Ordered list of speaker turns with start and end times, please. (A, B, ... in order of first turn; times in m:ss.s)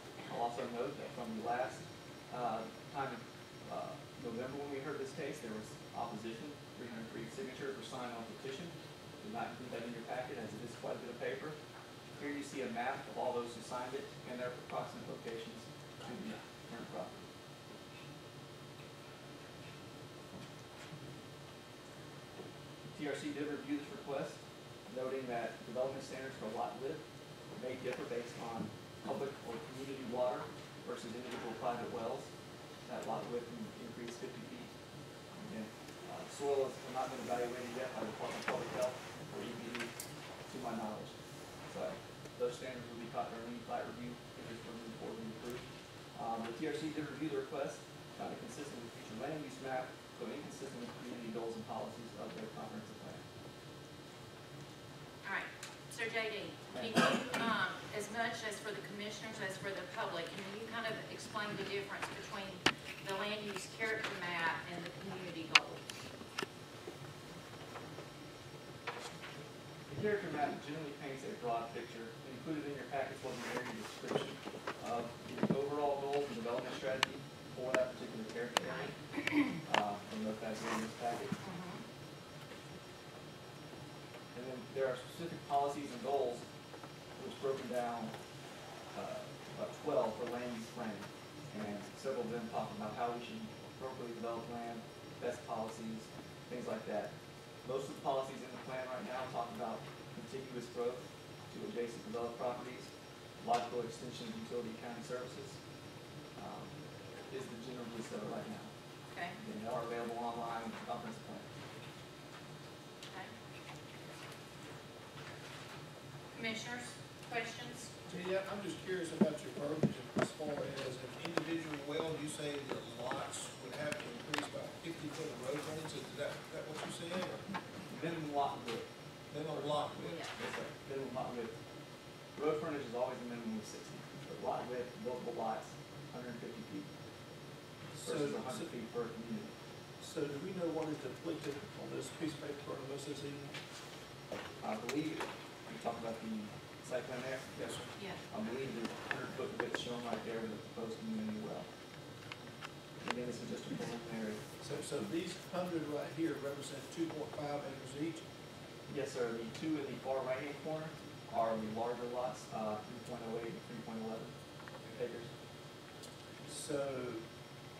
0:00.2-0:11.6 A
0:12.2-0:17.2 A
0:22.9-0:27.0 A
0:27.5-0:32.3 A
0:32.8-0:34.7 A
0:35.4-0:39.9 A
0:40.5-0:41.1 A
0:41.7-0:53.2 A
0:55.2-1:06.1 B
0:56.7-0:57.2 A
1:09.9-1:18.9 A
1:18.6-1:19.5 B
1:19.6-1:21.3 A
1:21.4-1:21.8 B
1:24.3-1:26.4 A
1:27.2-1:28.1 A
1:28.9-1:37.1 A
1:37.6-1:45.6 A
1:46.4-1:48.7 A
1:49.1-1:49.4 B
1:49.4-1:51.5 A
1:53.1-1:53.3 B
1:56.3-1:57.9 B
1:58.0-2:07.4 C
2:07.9-2:08.9 A
2:09.3-2:10.3 C
2:09.5-2:11.6 A
2:12.3-2:16.9 A
2:17.9-2:18.7 C
2:18.0-2:19.5 A
2:20.0-2:23.5 C
2:24.6-2:27.5 A
2:27.5-2:27.8 C
2:28.3-2:31.7 A
2:33.0-2:34.4 A
2:34.6-2:38.2 C
2:38.9-2:44.3 A
2:44.9-2:45.3 A
2:46.4-2:47.2 C